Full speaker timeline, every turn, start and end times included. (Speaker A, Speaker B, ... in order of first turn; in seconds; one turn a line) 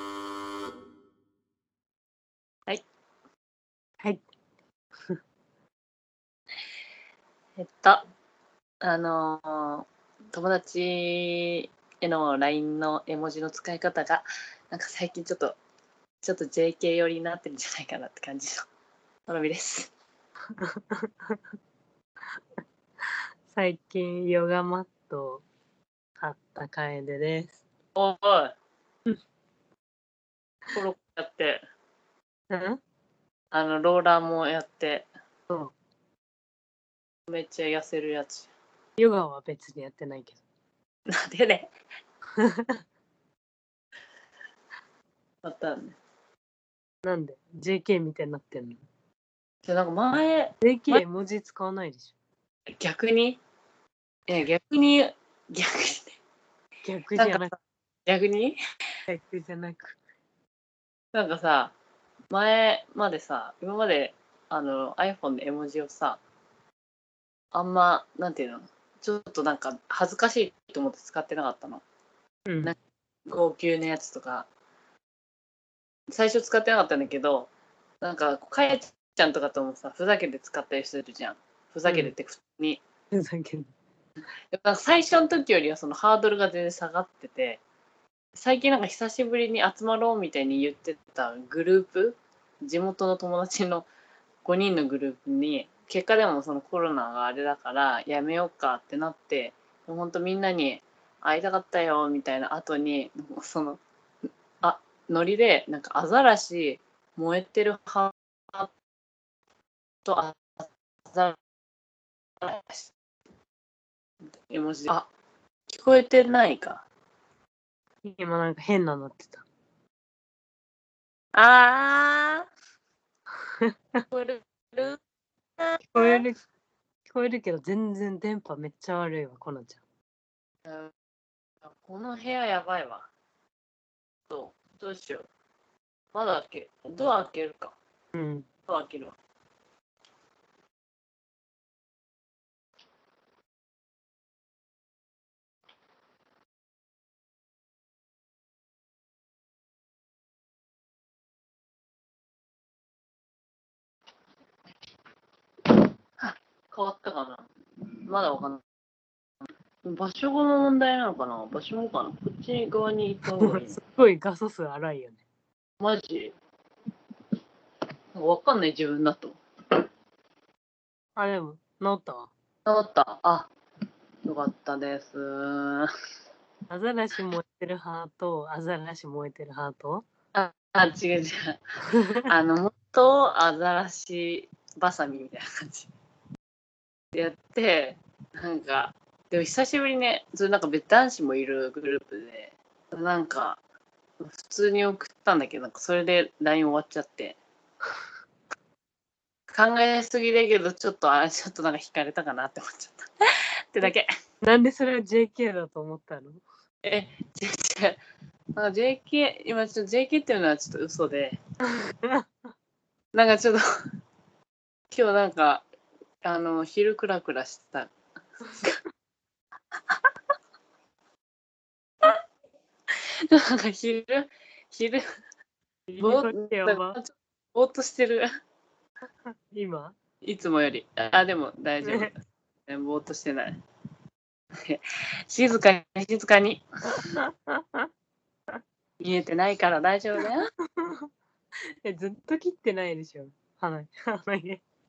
Speaker A: 7.6-8.0
Speaker A: 8.8-15.6
Speaker A: 16.2-18.6
Speaker A: 19.2-19.9
Speaker B: 20.6-21.4
Speaker B: 22.4-25.4
Speaker B: 26.2-27.6
Speaker A: 27.9-28.5
Speaker A: 30.7-31.6
Speaker B: 32.5-32.8
Speaker A: 33.5-35.1
Speaker B: 35.5-35.7
Speaker A: 37.3-38.5
Speaker B: 39.0-40.4
Speaker A: 41.1-41.7
Speaker B: 42.4-42.8
Speaker A: 45.4-46.0
Speaker B: 47.0-48.8
Speaker A: 49.6-51.0
Speaker B: 50.6-52.1
Speaker A: 52.7-53.4
Speaker A: 54.3-56.2
Speaker B: 56.8-57.5
Speaker A: 57.2-58.6
Speaker B: 59.1-60.0
Speaker A: 61.1-61.7
Speaker A: 62.3-66.2
Speaker A: 67.5-71.8
Speaker B: 72.5-72.7
Speaker A: 73.3-74.5
Speaker A: 76.1-82.8
Speaker B: 81.8-82.1
Speaker B: 83.1-83.7
Speaker A: 84.5-87.6
Speaker A: 88.3-93.9
Speaker A: 94.4-103.8
Speaker A: 104.6-108.7
Speaker A: 110.0-111.4
Speaker A: 112.4-112.9
Speaker A: 114.3-115.1
Speaker A: 115.7-116.8
Speaker B: 118.0-119.4
Speaker A: 121.3-122.5
Speaker B: 123.6-124.0
Speaker A: 124.1-125.0
Speaker A: 125.6-126.2
Speaker B: 125.9-126.4
Speaker B: 127.1-129.8
Speaker A: 130.6-130.9
Speaker A: 131.7-133.1
Speaker A: 134.3-135.3
Speaker A: 136.1-137.8
Speaker B: 138.1-138.5
Speaker A: 138.7-139.2
Speaker A: 155.7-157.5
Speaker A: 158.1-158.6
Speaker A: 159.8-163.8
Speaker B: 163.3-165.2
Speaker A: 165.8-166.3
Speaker A: 168.1-169.4
Speaker B: 171.2-172.3
Speaker A: 172.7-173.5
Speaker A: 174.2-175.9
Speaker B: 176.7-180.0
Speaker A: 180.3-185.9
Speaker B: 181.9-182.2
Speaker A: 187.1-193.6
Speaker A: 194.2-197.4
Speaker A: 199.5-203.1
Speaker A: 203.7-204.1
Speaker B: 204.4-206.4
Speaker A: 206.8-208.0
Speaker A: 208.6-211.4
Speaker B: 211.7-212.2
Speaker A: 213.1-213.6
Speaker A: 214.9-215.7
Speaker A: 216.2-217.9
Speaker A: 218.5-218.8
Speaker A: 223.3-225.0
Speaker B: 225.9-227.0
Speaker A: 226.0-228.2
Speaker B: 229.3-229.9
Speaker A: 230.2-232.2
Speaker B: 231.8-232.1
Speaker A: 232.7-233.6
Speaker A: 234.5-237.2
Speaker B: 237.1-237.9
Speaker A: 239.0-240.5
Speaker B: 240.8-241.1
Speaker B: 241.8-244.6